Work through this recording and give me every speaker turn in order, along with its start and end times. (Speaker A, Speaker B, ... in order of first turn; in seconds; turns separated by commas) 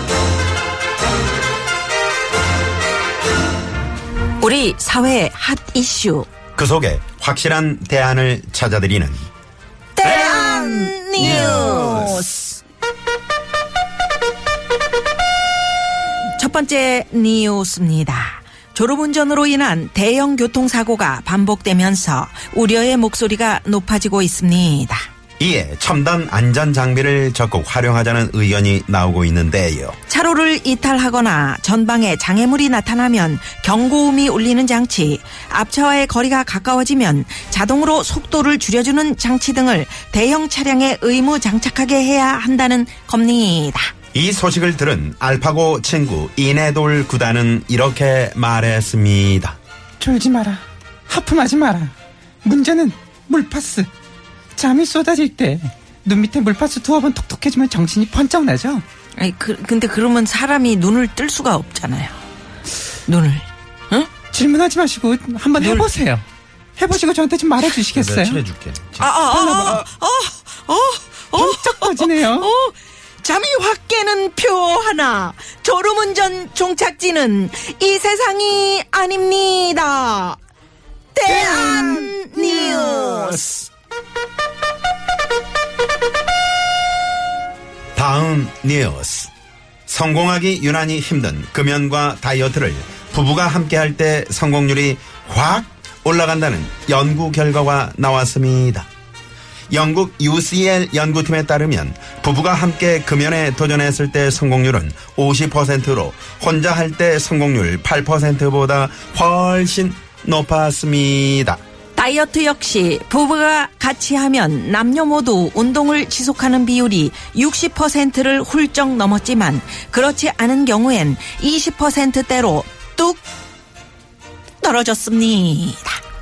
Speaker A: 4.4-6.3, Speaker B: 6.5-9.2, Speaker A: 9.9-12.6, Speaker B: 10.0-12.3, Speaker C: 11.2-11.6, Speaker A: 16.4-25.0, Speaker B: 25.4-30.0, Speaker A: 30.1-43.9, Speaker B: 44.1-49.6, Speaker C: 50.0-51.9, Speaker C: 52.4-53.9, Speaker C: 54.5-58.8, Speaker A: 59.1-62.2, Speaker A: 63.0-64.1, Speaker C: 64.3-66.2, Speaker A: 65.6-65.9, Speaker C: 66.8-68.4, Speaker B: 67.9-69.8, Speaker A: 69.0-80.4, Speaker C: 69.3-69.8, Speaker C: 71.3-72.5, Speaker A: 81.1-83.6, Speaker B: 87.9-89.3, Speaker B: 89.9-98.9, Speaker B: 99.7-111.6, Speaker A: 112.0-123.2, Speaker A: 124.6-126.0